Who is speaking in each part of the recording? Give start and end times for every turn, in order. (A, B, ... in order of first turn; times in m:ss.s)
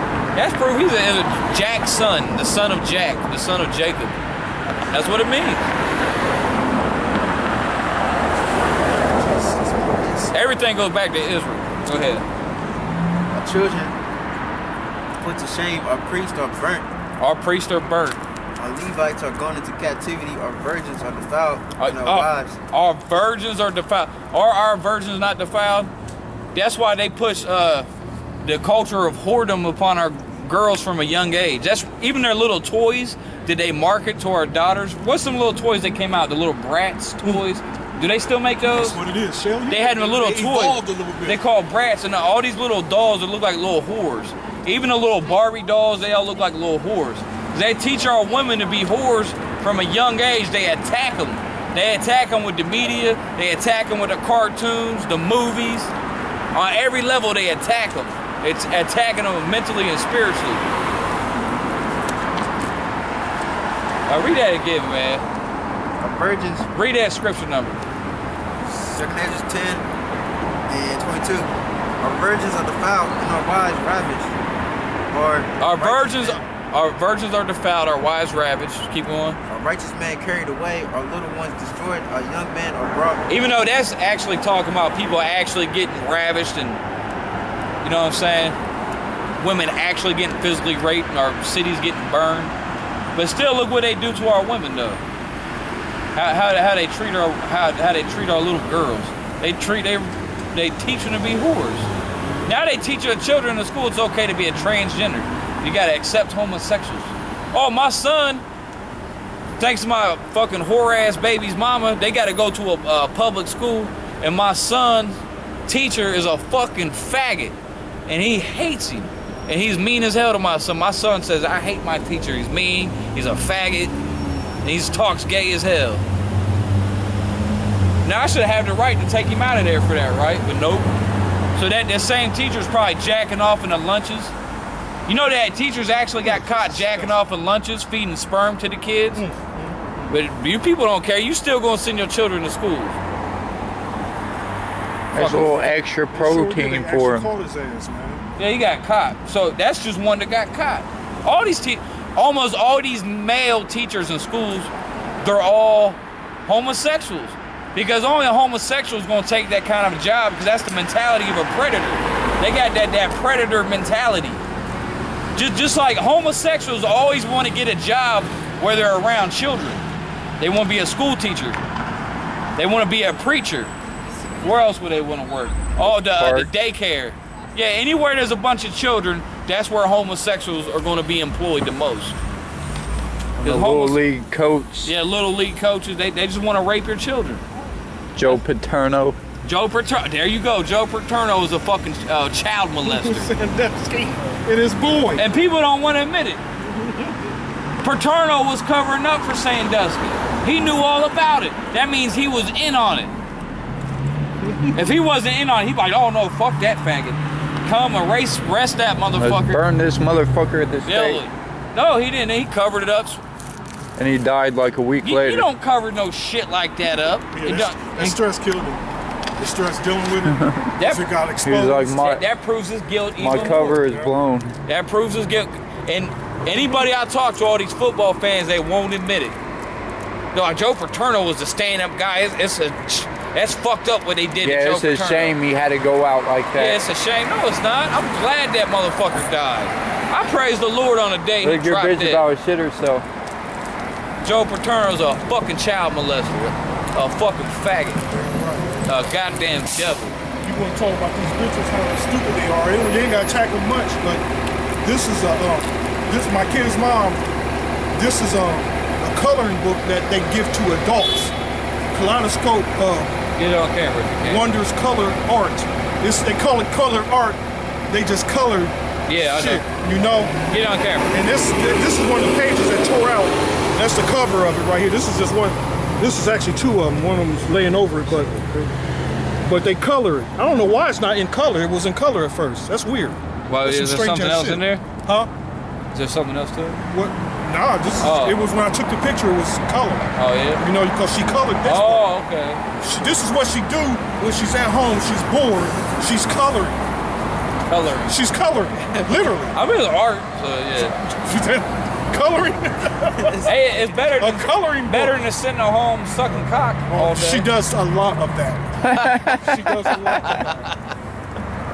0:00.4-0:04.2 A
0:04.9-0:05.6 A
0:08.8-0:10.3 B
0:10.3-0:12.2 A
0:13.3-0:14.0 B
0:15.2-0:16.9 B
0:17.2-0:18.2 A
0:18.6-0:22.6 B
0:21.8-0:25.9 A
0:26.6-0:27.9 A
0:28.4-0:39.0 A
0:38.7-0:41.4 C
0:39.7-0:55.9 A
0:56.5-1:00.7 A
1:04.1-1:05.2 A
1:06.0-1:06.7 B
1:06.7-1:07.8 A
1:08.7-1:09.8 B
1:10.7-1:14.4 B
1:15.1-1:16.4 B
1:15.6-1:19.4 A
1:19.5-1:23.2 B
1:23.3-1:26.8 A
1:27.8-1:28.6 A
1:29.4-1:32.5 A
1:33.2-1:35.0 A
1:36.2-1:41.9 A
1:42.5-1:48.4 A
1:49.6-2:03.9 A
2:04.6-2:06.0 A
2:08.0-2:10.9 A
2:11.6-2:14.3 A
2:15.1-2:19.2 A
2:16.2-2:17.2 C
2:19.2-2:20.2 C
2:20.1-2:23.0 A
2:25.1-2:25.7 A
2:25.1-2:27.3 D
2:25.2-2:28.2 C
2:28.4-2:44.4 A
2:45.4-2:49.8 A
2:50.4-2:51.6 A
2:52.6-2:53.7 A
2:54.4-3:02.2 A
2:56.0-2:56.5 D
3:03.4-3:04.9 D
3:03.4-3:04.0 A
3:04.8-3:07.4 A
3:08.2-3:09.2 D
3:09.4-3:13.3 A
3:12.8-3:15.2 C
3:15.2-3:16.4 A
3:16.6-3:17.2 C
3:17.8-3:23.1 A
3:24.7-3:29.6 A
3:29.2-3:31.2 D
3:30.9-3:33.2 A
3:34.0-3:35.5 D
3:35.0-3:38.2 A
3:37.3-3:38.8 C
3:39.4-3:42.0 C
3:40.8-3:41.1 A
3:41.4-3:42.2 D
3:42.0-3:43.8 A
3:43.2-3:44.5 D
3:43.3-3:44.1 C
3:44.7-3:49.4 A
3:50.3-3:55.4 A
3:54.4-3:56.9 D
3:56.6-4:02.2 A
4:01.4-4:03.0 D
4:04.2-4:08.0 A
4:08.1-4:08.8 C
4:08.9-4:10.2 A
4:10.4-4:14.2 C
4:14.8-4:17.2 C
4:18.0-4:21.3 C
4:21.9-4:23.2 C
4:23.4-4:24.4 A
4:24.2-4:27.4 C
4:27.9-4:30.4 C
4:29.1-4:29.6 A
4:30.5-4:31.1 A
4:31.1-4:38.7 C
4:39.4-4:45.3 C
4:43.5-4:44.8 A
4:45.9-4:46.8 A
4:46.9-4:52.1 C
4:48.0-4:48.4 A
4:50.2-4:50.6 A
4:51.6-4:52.6 A
4:52.8-4:56.8 C
4:57.7-4:58.2 A
4:58.1-4:59.6 C
4:59.5-5:01.0 A
5:01.0-5:03.4 C
5:03.2-5:03.8 B
5:03.4-5:07.5 A
5:04.2-5:05.2 C
5:06.9-5:10.7 C
5:08.9-5:09.2 A
5:08.9-5:10.0 D
5:10.2-5:10.7 A